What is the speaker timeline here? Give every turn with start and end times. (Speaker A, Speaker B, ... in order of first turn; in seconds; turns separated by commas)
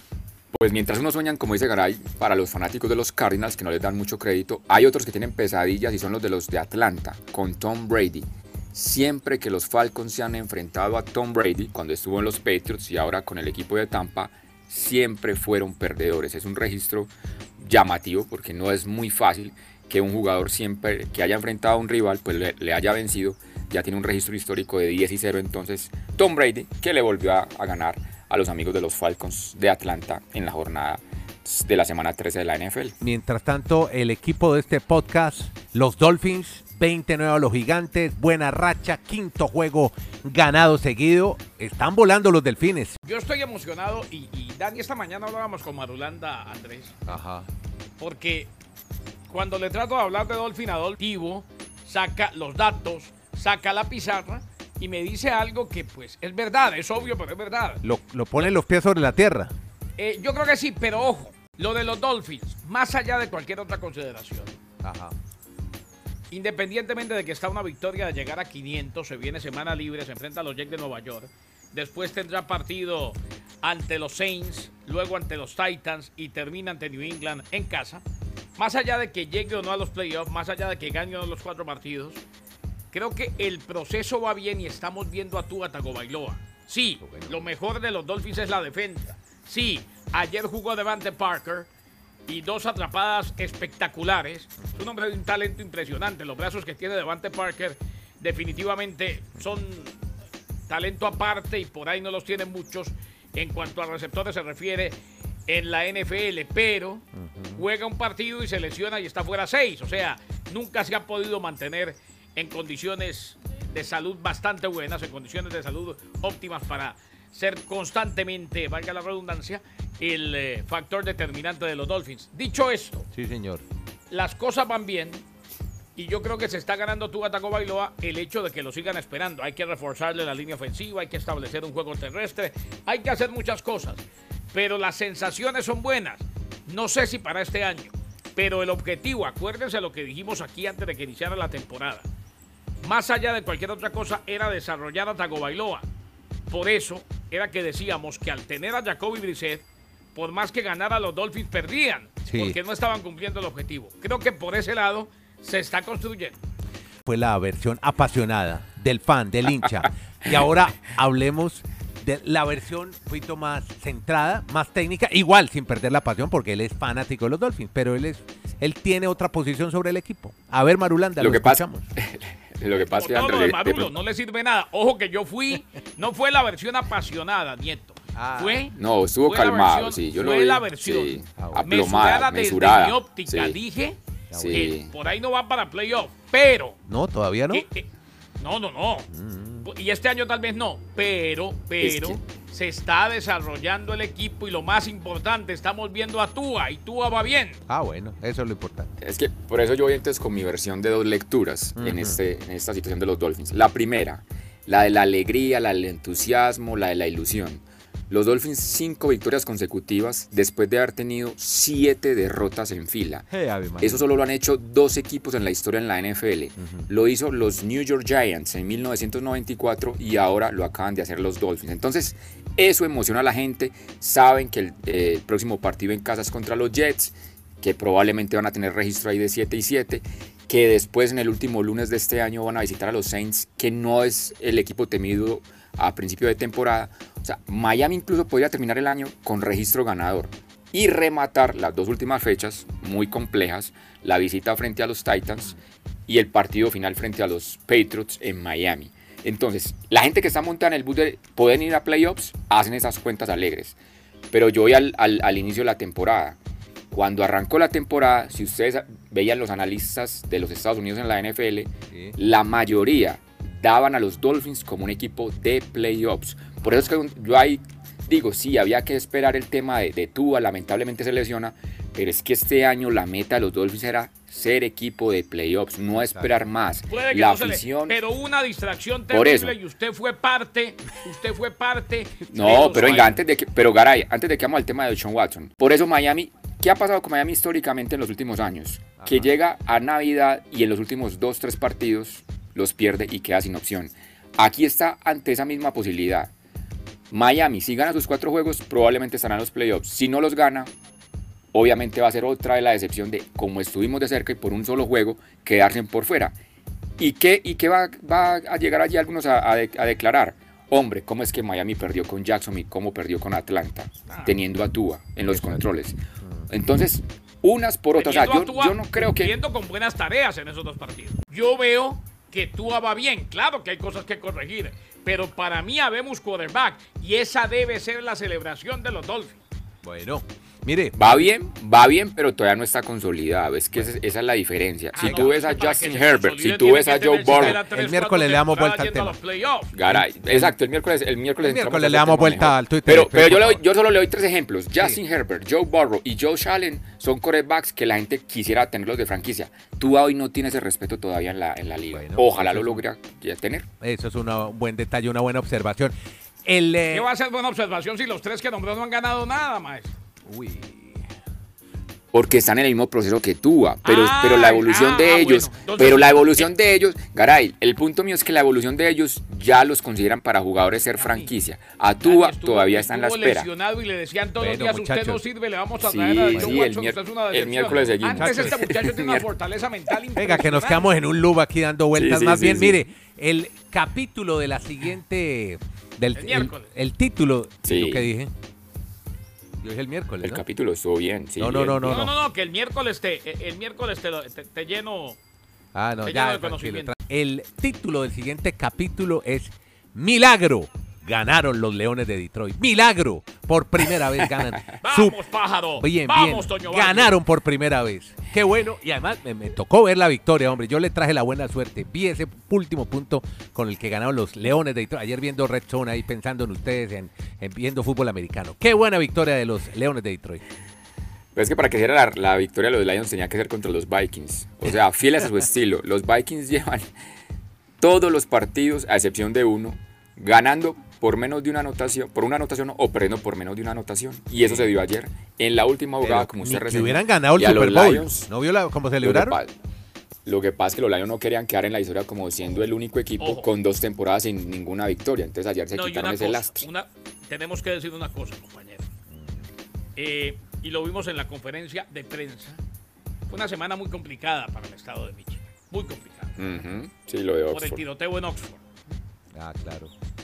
Speaker A: 0.5-33.0, Speaker B: 33.0-43.0, Speaker C: 43.0-47.0, Speaker B: 47.0-47.5, Speaker C: 48.0-48.5, Speaker C: 49.3-57.8, Speaker B: 57.8-59.5, Speaker C: 60.0-64.6, Speaker B: 64.8-65.1, Speaker C: 66.3-78.0, Speaker C: 78.6-82.2, Speaker C: 82.9-91.7, Speaker B: 87.0-87.5, Speaker C: 92.3-100.0, Speaker C: 100.7-105.0, Speaker C: 105.5-123.1, Speaker B: 107.1-107.6, Speaker B: 123.1-123.6, Speaker C: 124.1-125.2, Speaker C: 126.0-142.1, Speaker C: 142.8-145.9, Speaker C: 146.5-156.4, Speaker B: 152.3-152.6, Speaker B: 157.0-171.8, Speaker A: 171.2-173.9, Speaker C: 172.8-178.7, Speaker B: 178.1-178.7, Speaker A: 178.7-183.6, Speaker C: 179.2-184.0, Speaker B: 181.4-181.7, Speaker B: 184.3-184.7, Speaker A: 184.3-184.9, Speaker C: 184.5-186.8, Speaker B: 186.9-187.7, Speaker C: 187.5-187.9, Speaker C: 188.4-189.1, Speaker B: 189.1-189.7, Speaker C: 189.6-197.6, Speaker A: 191.8-192.2, Speaker B: 197.7-198.9, Speaker A: 199.0-213.3, Speaker B: 201.8-202.2, Speaker B: 213.3-214.1, Speaker A: 213.8-245.6, Speaker B: 216.6-216.9, Speaker A: 246.1-253.8, Speaker A: 254.3-256.4, Speaker A: 256.9-278.0, Speaker B: 261.9-262.2, Speaker B: 276.0-276.3, Speaker C: 276.9-283.2, Speaker A: 279.1-279.6, Speaker A: 282.3-296.3, Speaker B: 282.5-283.0, Speaker B: 289.0-289.3, Speaker A: 297.1-300.7, Speaker A: 301.5-306.4, Speaker A: 307.0-316.0, Speaker C: 314.1-314.4, Speaker B: 315.3-315.6, Speaker B: 316.2-316.5, Speaker A: 316.5-319.3, Speaker C: 317.9-329.4, Speaker B: 329.8-331.2, Speaker A: 330.9-337.6, Speaker C: 334.9-339.7, Speaker B: 335.0-335.3, Speaker B: 337.3-339.2, Speaker A: 339.7-353.7, Speaker B: 339.9-340.5, Speaker B: 341.4-343.6, Speaker B: 351.9-352.8, Speaker B: 353.8-355.9, Speaker B: 356.4-357.1, Speaker C: 356.9-360.0, Speaker B: 360.2-361.1, Speaker A: 362.1-373.5, Speaker C: 363.8-366.5, Speaker C: 370.9-371.3, Speaker C: 372.0-380.9, Speaker B: 374.4-375.2, Speaker A: 375.8-379.2, Speaker B: 376.3-376.6, Speaker B: 378.1-378.6, Speaker B: 380.1-388.3, Speaker A: 381.9-382.8, Speaker C: 386.1-386.7, Speaker A: 387.6-388.1, Speaker B: 389.6-390.4, Speaker A: 390.2-392.1, Speaker B: 391.4-392.1, Speaker C: 391.8-395.2, Speaker B: 395.7-405.2, Speaker C: 396.0-396.9, Speaker C: 404.8-407.2, Speaker B: 405.8-420.4, Speaker A: 421.3-426.9, Speaker A: 427.8-438.3, Speaker B: 434.4-434.7, Speaker B: 436.0-439.4, Speaker A: 439.0-439.5, Speaker A: 440.2-446.7, Speaker C: 443.2-443.5, Speaker C: 445.7-448.9, Speaker B: 449.1-449.5, Speaker C: 449.9-452.6, Speaker C: 453.3-456.4, Speaker A: 456.4-457.8, Speaker C: 457.5-458.6, Speaker B: 459.3-459.9